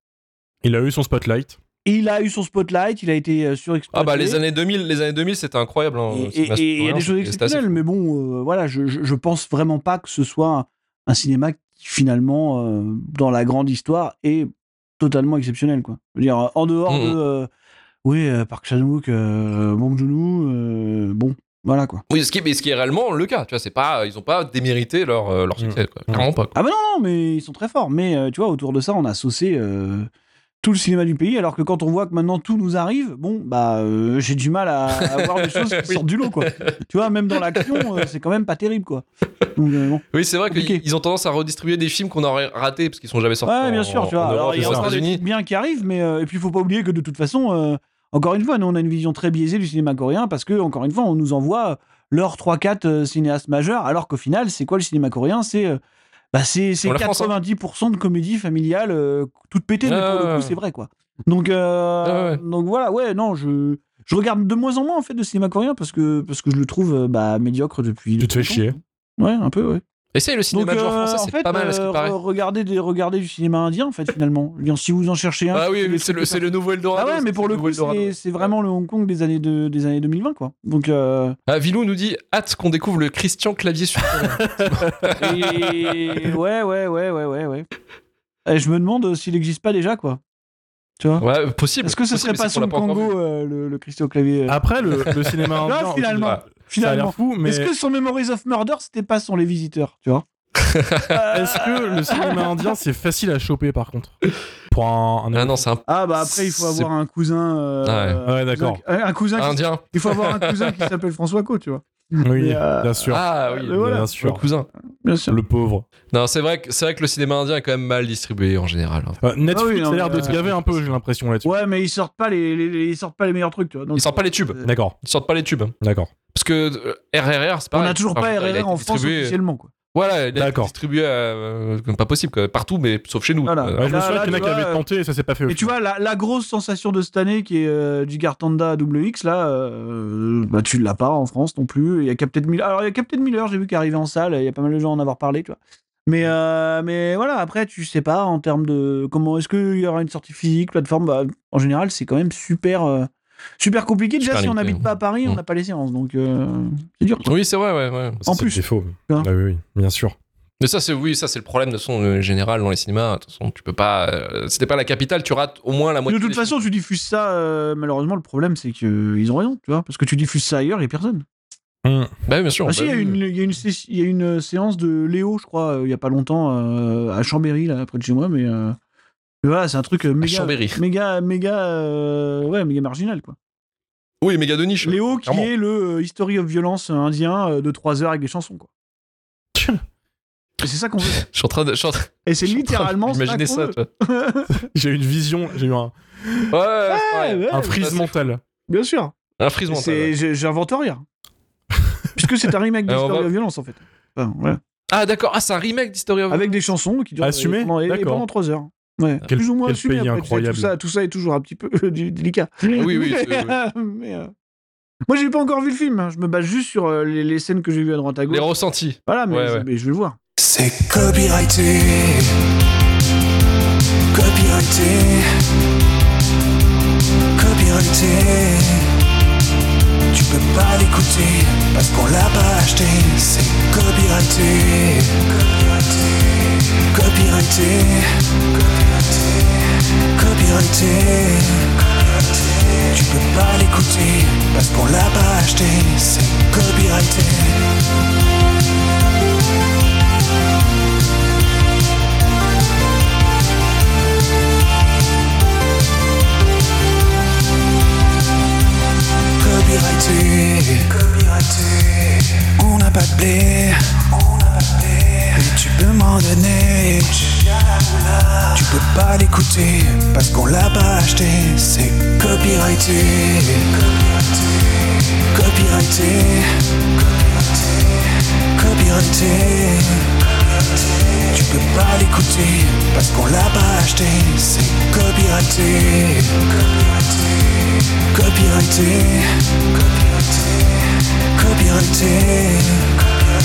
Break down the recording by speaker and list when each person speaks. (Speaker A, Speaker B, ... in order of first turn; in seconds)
Speaker A: 0.6-1.6, 25.6-26.2, 44.5-44.9, 68.2-68.8, 84.6-84.9, 94.5-97.7, 101.3-105.6, 108.2-108.8, 112.2-114.4, 115.3-115.8, 119.2-121.5, 124.6-124.9, 125.8-126.1, 130.3-130.7, 133.8-135.7, 158.2-160.2, 171.8-172.1, 189.6-189.8, 194.6-196.5, 197.5-198.4, 207.2-208.2, 209.3-210.7
Speaker B: 1.8-4.4, 6.1-17.5, 18.0-22.0, 26.5-30.1, 30.6-39.0, 39.5-40.8, 43.5-55.8, 56.3-69.8, 70.5-76.4, 76.9-81.4, 85.1-87.7, 88.5-90.2, 91.0-91.2, 91.8-94.6, 95.6-100.2, 101.1-102.7, 105.9-114.1, 115.0-115.4, 119.5-120.5, 121.4-124.7, 127.7-129.7, 133.5-134.8, 135.4-157.3, 158.2-159.3, 166.1-171.2, 172.7-178.8, 179.4-183.3, 184.8-188.7, 190.6-191.2, 192.2-194.6, 196.9-197.9, 198.7-199.1, 199.7-201.0, 202.2-204.6, 206.3-214.3, 215.1-218.5, 219.1-220.2
Speaker C: 3.9-7.8, 16.9-17.2, 22.1-26.5, 34.9-36.7, 37.5-37.8, 40.1-45.2, 56.8-57.3, 59.8-60.5, 62.0-62.4, 70.1-72.2, 75.5-78.5, 81.5-85.5, 91.2-93.1, 100.5-101.1, 105.3-106.9, 107.8-108.2, 109.4-110.8, 113.1-114.7, 116.1-119.2, 120.1-120.9, 123.9-125.7, 126.3-129.4, 129.9-134.5, 154.2-155.4, 157.2-158.2, 160.6-166.6, 172.3-173.2, 180.2-180.8, 184.2-185.5, 191.1-193.9, 196.5-198.1, 199.4-200.1, 202.9-203.3, 204.9-206.5, 212.7-213.6, 218.3-219.7
Speaker D: 220.4-222.3, 224.1-225.3, 227.4-228.9, 230.1-236.1, 236.9-239.6, 240.1-241.8, 242.8-247.7, 259.4-274.5, 275.3-276.8, 277.6-280.2, 281.2-287.4, 287.9-293.2